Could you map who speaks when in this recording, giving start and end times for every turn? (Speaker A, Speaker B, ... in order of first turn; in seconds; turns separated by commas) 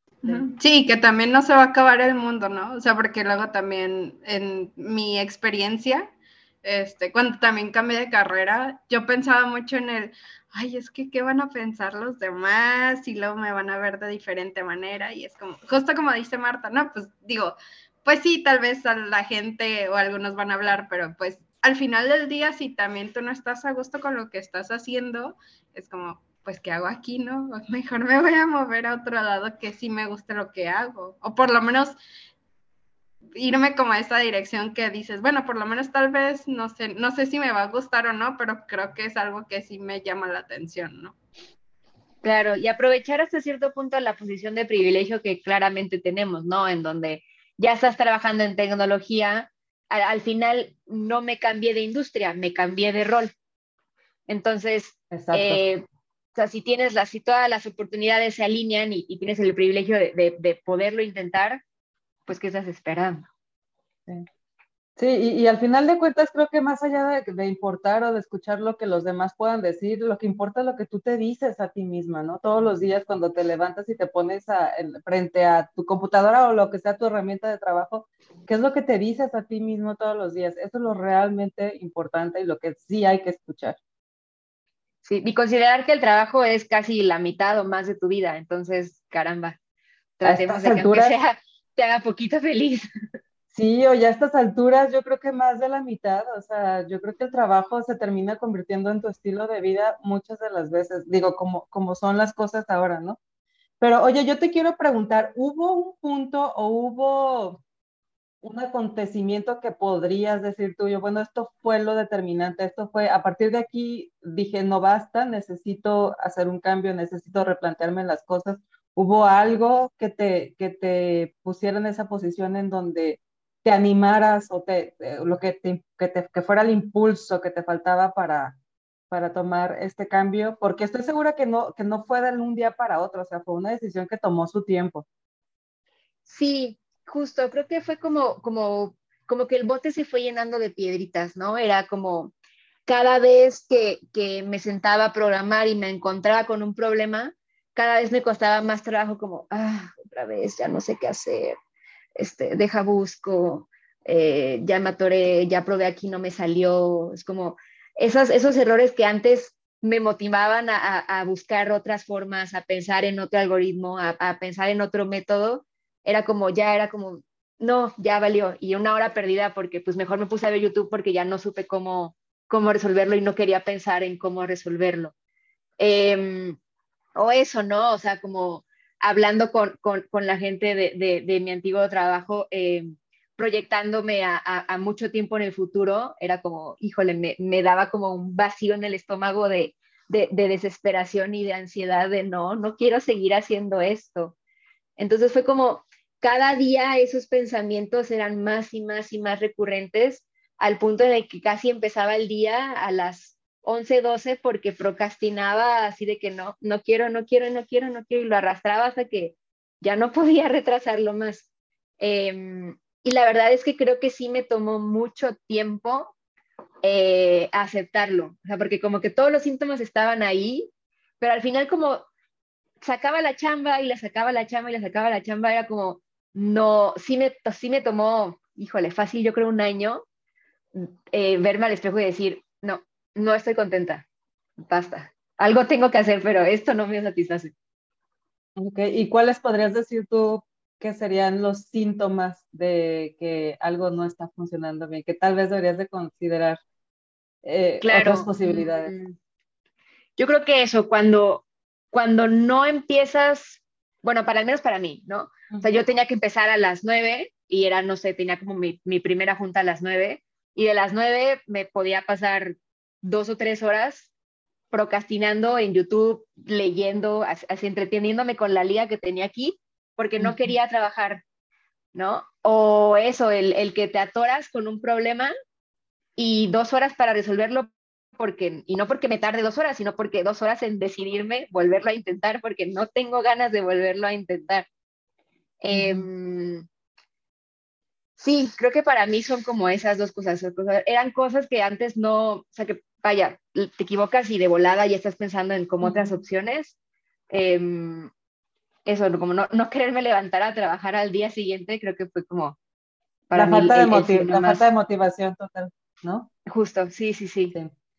Speaker A: 0.2-6.1, Speaker A: 6.6-32.0, Speaker A: 33.4-41.1, Speaker B: 42.2-53.3, Speaker B: 54.3-55.8, Speaker C: 55.1-55.6, Speaker B: 56.4-61.6, Speaker B: 62.3-63.3, Speaker C: 65.0-83.8, Speaker B: 85.0-89.6, Speaker B: 90.2-92.9, Speaker C: 90.2-91.1, Speaker C: 93.5-103.2, Speaker C: 103.8-107.6, Speaker C: 108.4-128.6, Speaker C: 129.1-135.1, Speaker B: 136.3-142.3, Speaker B: 142.9-151.6, Speaker B: 152.2-175.1, Speaker B: 175.8-176.6, Speaker B: 177.1-194.4, Speaker B: 195.0-211.5, Speaker B: 212.0-216.1, Speaker B: 216.8-222.1, Speaker B: 222.8-230.0, Speaker B: 230.7-234.0, Speaker B: 234.6-237.5, Speaker C: 238.6-246.6, Speaker C: 247.4-248.9, Speaker B: 247.8-249.2, Speaker B: 250.2-264.1, Speaker C: 255.5-255.8, Speaker B: 264.7-271.2, Speaker C: 270.2-270.5, Speaker B: 271.9-275.3, Speaker B: 276.2-284.6, Speaker B: 285.6-286.6, Speaker C: 285.7-286.1, Speaker B: 288.2-296.8, Speaker C: 295.8-296.2, Speaker B: 297.3-298.1, Speaker B: 298.9-302.6, Speaker B: 303.3-304.6, Speaker C: 303.3-306.3, Speaker B: 306.5-307.6